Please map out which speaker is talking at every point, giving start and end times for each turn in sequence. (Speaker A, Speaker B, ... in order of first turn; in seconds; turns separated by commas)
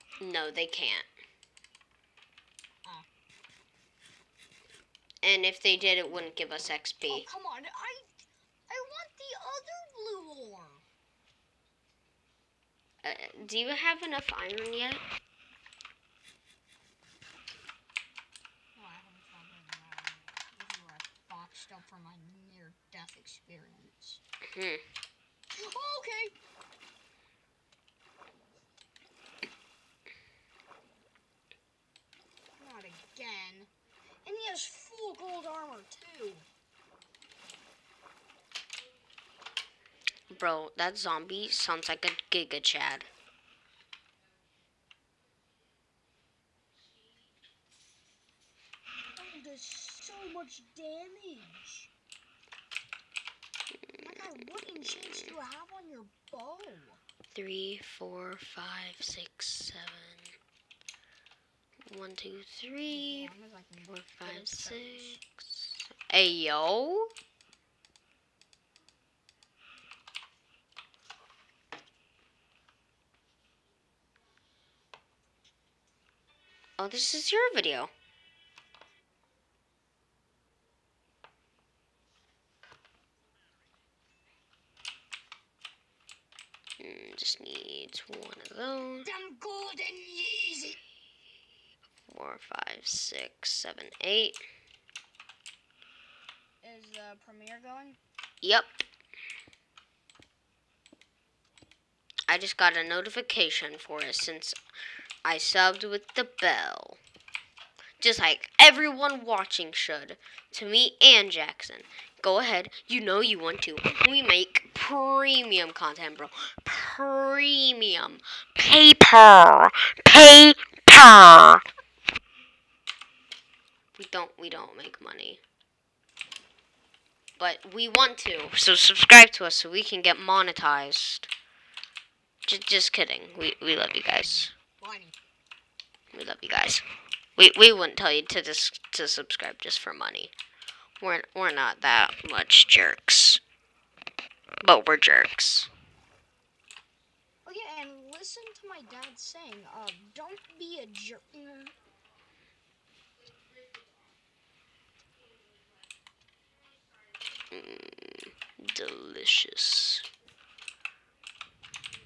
Speaker A: 0.2-1.1, Speaker A: 5.2-7.2, Speaker B: 7.0-10.8, Speaker A: 13.0-15.0, Speaker B: 18.7-24.2, Speaker A: 24.5-24.8, Speaker B: 25.5-26.3, Speaker B: 32.6-33.7, Speaker B: 34.2-36.5, Speaker A: 40.3-43.1, Speaker B: 49.1-51.9, Speaker B: 54.0-57.0, Speaker A: 57.3-60.3, Speaker A: 61.9-63.3, Speaker B: 62.9-65.2, Speaker A: 63.9-67.1, Speaker A: 76.8-77.9, Speaker A: 86.8-89.1, Speaker B: 89.0-90.8, Speaker A: 92.1-94.4, Speaker B: 96.6-98.0, Speaker A: 98.4-98.7, Speaker A: 102.3-104.5, Speaker A: 105.2-107.0, Speaker A: 108.0-121.6, Speaker A: 124.0-125.4, Speaker A: 127.4-131.3, Speaker A: 132.4-134.5, Speaker B: 134.1-135.2, Speaker A: 136.1-136.8, Speaker A: 137.4-140.3, Speaker A: 141.0-143.4, Speaker A: 144.6-145.7, Speaker B: 147.4-151.7, Speaker A: 157.5-160.1